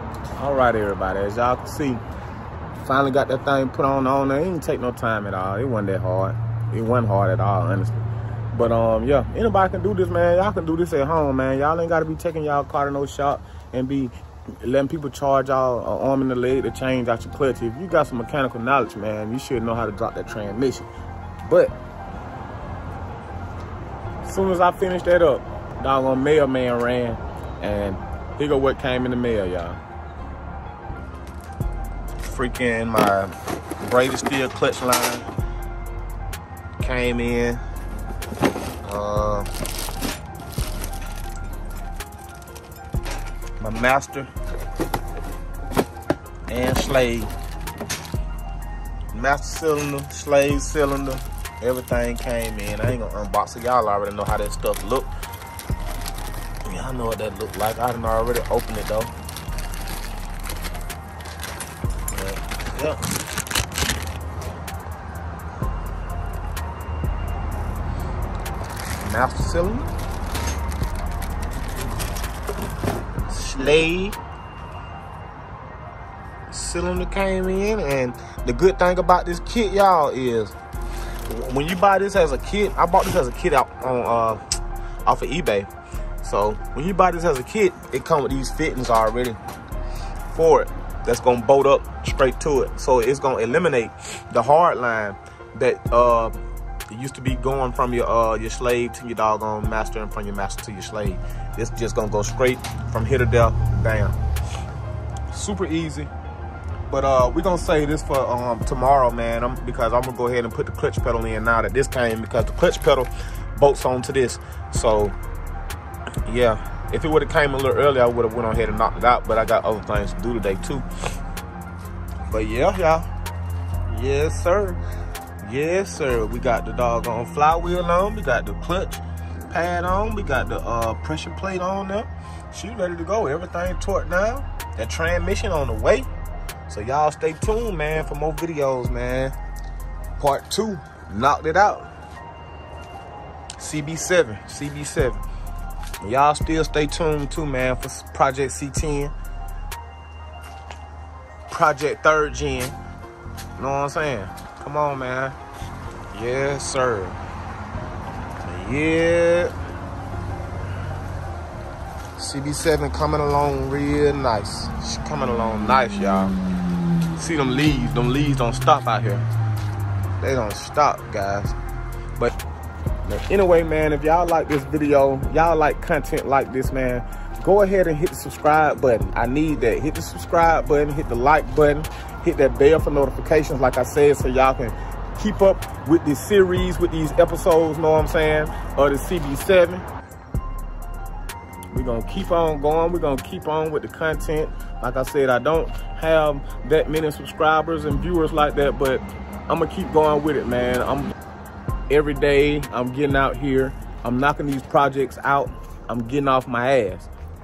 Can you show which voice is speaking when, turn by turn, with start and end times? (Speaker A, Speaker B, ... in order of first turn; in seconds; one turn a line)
Speaker A: 0.4-2.0
Speaker A: 2.8-20.9
Speaker A: 21.4-21.7
Speaker A: 24.2-29.8
Speaker A: 32.2-35.3
Speaker A: 36.8-37.6
Speaker A: 38.8-39.5
Speaker A: 43.6-44.3
Speaker A: 46.5-47.3
Speaker A: 49.1-55.1
Speaker A: 56.6-59.1
Speaker A: 62.1-63.0
Speaker A: 69.0-69.9
Speaker A: 73.3-74.2
Speaker A: 76.5-80.5
Speaker A: 81.2-84.4
Speaker A: 85.0-85.7
Speaker A: 86.2-89.4
Speaker A: 90.3-104.2
Speaker A: 105.3-106.1
Speaker A: 106.9-115.2
Speaker A: 116.2-120.9
Speaker A: 122.2-123.1
Speaker A: 123.9-124.8
Speaker A: 125.4-136.1
Speaker A: 136.7-139.3
Speaker A: 140.2-141.9
Speaker A: 143.6-145.2
Speaker A: 146.0-149.1
Speaker A: 151.5-152.8
Speaker A: 153.6-155.4
Speaker A: 156.1-157.2
Speaker A: 158.4-159.5
Speaker A: 162.2-166.3
Speaker A: 167.2-169.2
Speaker A: 170.2-171.6
Speaker A: 173.0-189.9
Speaker A: 191.7-201.1
Speaker A: 201.9-207.1